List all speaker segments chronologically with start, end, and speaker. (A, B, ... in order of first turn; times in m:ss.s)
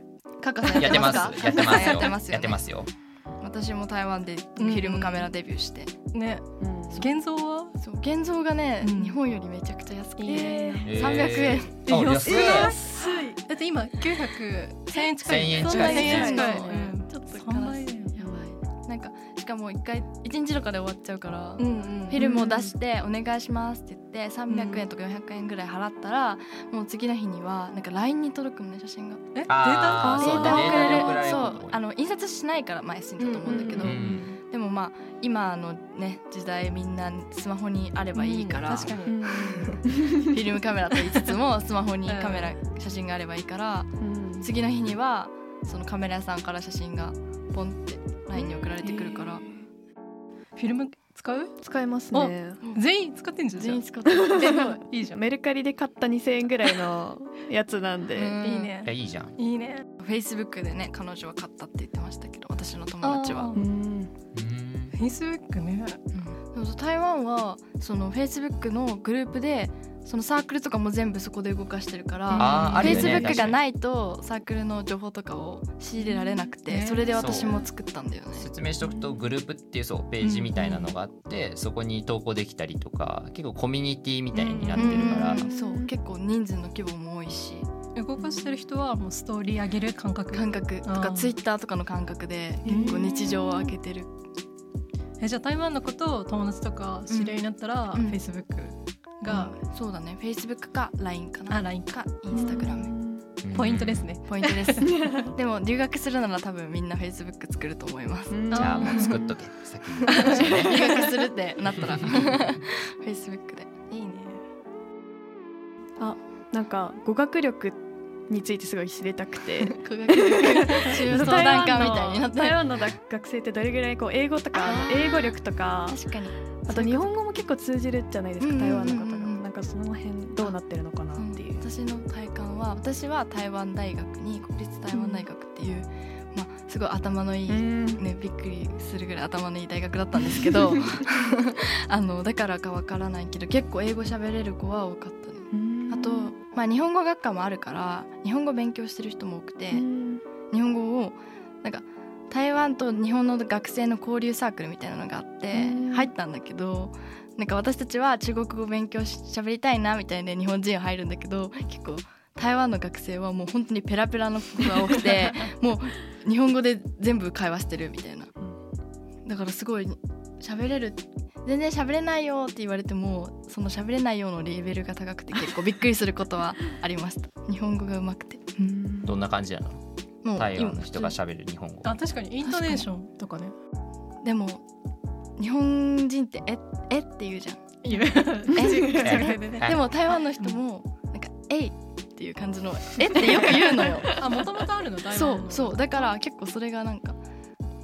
0:00.4-0:02.6 A
0:00.7-0:02.0 B
0:00.8-0:02.9 C
0:03.4-0:05.9 A
0:04.6-0:05.3 B
0:06.1-0:07.7 B
0:06.6-0:07.1 D
0:07.8-0:11.8 A
0:08.8-0:09.2 B
0:10.2-0:18.1 B
0:10.3-0:10.9 D
0:10.8-0:12.7 C
0:12.3-0:13.3 D
0:14.9-0:29.2 A
0:15.2-0:16.4 C
0:15.8-0:16.7 D
0:18.2-0:18.6 D
0:21.6-0:22.3 B
0:22.2-0:22.7 D
0:24.5-0:24.9 B
0:29.4-0:31.4 B
0:29.5-0:31.8 C
0:30.0-0:39.0 A
0:33.2-0:34.4 B
0:33.5-0:33.8 D
0:33.8-0:34.3 C
0:38.2-0:39.8 B
0:39.1-0:40.3 D
0:40.1-0:43.9 A
0:42.1-0:42.5 B
0:44.0-0:44.5 D
0:44.4-0:49.5 A
0:48.8-0:49.4 D
0:50.6-0:51.5 B
0:51.6-0:52.6 D
0:52.1-0:55.2 B
0:53.6-0:54.7 A
0:54.1-0:58.4 D
0:58.2-0:58.7 A
0:58.4-0:59.8 B
0:58.8-0:59.4 C
1:00.0-1:03.5 A
1:03.0-1:03.6 B
1:03.6-1:04.1 D
1:04.3-1:05.0 C
1:04.9-1:06.0 B
1:06.1-1:18.5 A
1:12.3-1:13.5 B
1:12.4-1:13.6 C
1:12.8-1:13.4 D
1:16.0-1:16.5 D
1:16.7-1:17.6 B
1:17.2-1:17.5 C
1:17.3-1:17.6 D
1:18.4-1:25.4 C
1:18.8-1:19.2 D
1:20.2-1:21.0 B
1:24.3-1:25.4 B
1:24.8-1:27.7 A
1:25.0-1:25.9 D
1:28.0-1:31.4 B
1:28.2-1:28.6 D
1:30.3-1:34.1 A
1:32.7-1:33.4 B
1:32.7-1:33.7 D
1:35.2-1:39.6 B
1:37.1-1:38.2 A
1:39.3-1:42.9 A
1:41.5-1:42.8 B
1:42.3-1:43.2 D
1:43.4-1:44.1 C
1:43.5-1:44.9 B
1:44.2-1:49.2 A
1:44.8-1:45.3 D
1:48.3-1:49.1 D
1:48.5-1:49.2 B
1:48.6-1:50.8 C
1:50.1-1:53.7 A
1:50.1-1:50.5 B
1:51.8-1:52.2 C
1:53.9-1:54.4 B
1:56.0-2:06.0 D
1:59.8-2:02.6 A
2:00.4-2:02.3 B
2:04.6-2:05.3 A
2:05.9-2:07.1 A
2:06.7-2:11.6 D
2:08.4-2:09.4 A
2:11.2-2:29.8 A
2:14.9-2:15.3 D
2:17.5-2:18.1 D
2:25.5-2:26.3 D
2:29.7-2:30.2 D
2:30.5-2:48.3 A
2:35.5-2:36.1 D
2:49.2-2:58.6 A
2:58.6-2:59.2 D
2:59.0-2:59.8 C
3:00.2-3:01.2 A
3:00.4-3:02.0 C
3:01.8-3:03.5 B
3:02.4-3:02.9 A
3:04.2-3:04.6 A
3:05.4-3:07.7 A
3:07.8-3:09.7 B
3:08.5-3:14.2 A
3:09.0-3:09.8 C
3:13.2-3:16.1 B
3:15.1-3:17.2 A